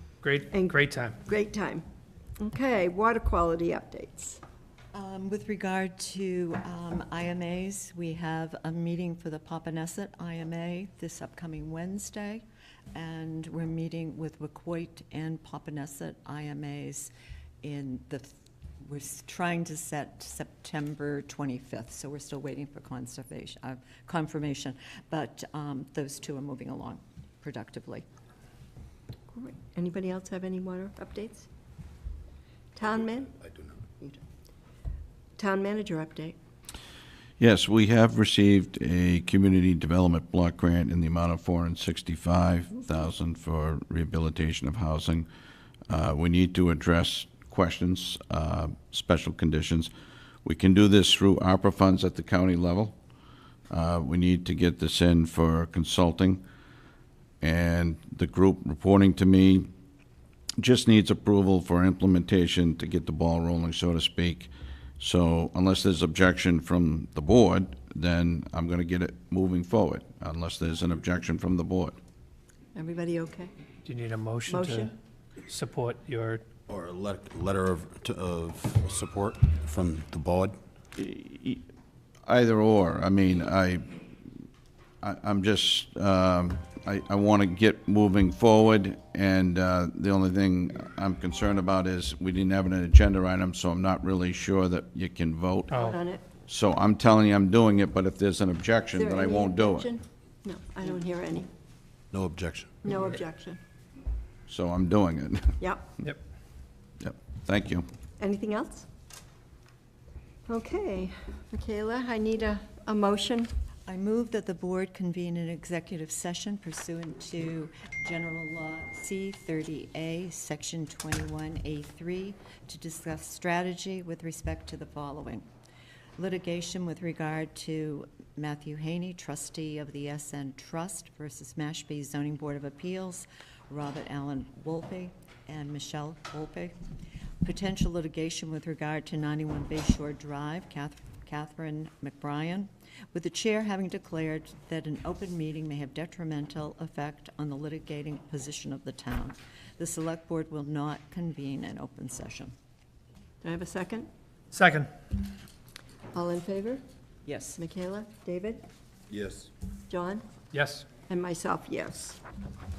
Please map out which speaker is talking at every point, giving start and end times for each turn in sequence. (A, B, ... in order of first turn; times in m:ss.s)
0:00.2-0:01.2 A
0:00.5-0:01.8 B
0:02.4-0:04.4 B
0:04.9-0:12.4 C
0:12.9-0:17.1 C
0:17.6-0:28.0 C
0:29.3-0:31.5 B
0:32.8-0:34.2 B
0:35.4-0:36.4 B
0:37.4-0:45.3 D
0:45.9-0:49.9 D
0:50.4-0:53.0 D
0:53.7-0:56.4 D
0:57.4-0:59.7 D
1:00.6-1:12.0 D
1:12.7-1:13.5 B
1:13.8-1:14.9 A
1:14.5-1:14.9 B
1:15.4-1:16.4 A
1:16.7-1:20.6 E
1:21.0-1:21.6 D
1:22.2-1:23.8 D
1:25.0-1:35.8 D
1:35.7-1:36.2 B
1:36.5-1:39.9 D
1:38.9-1:41.5 B
1:42.1-1:42.7 E
1:42.8-1:43.6 B
1:44.5-1:45.6 D
1:45.6-1:45.9 B
1:47.0-1:47.8 D
1:48.2-1:48.9 B
1:50.4-1:53.5 B
1:53.9-2:05.4 C
2:06.2-2:16.7 C
2:17.4-2:32.5 C
2:33.4-2:34.1 B
2:34.5-2:34.9 A
2:36.1-2:36.8 B
2:37.2-2:37.6 C
2:37.6-2:38.6 B
2:39.1-2:39.5 E
2:39.9-2:40.2 B
2:40.5-2:40.9 A
2:41.1-2:42.2 B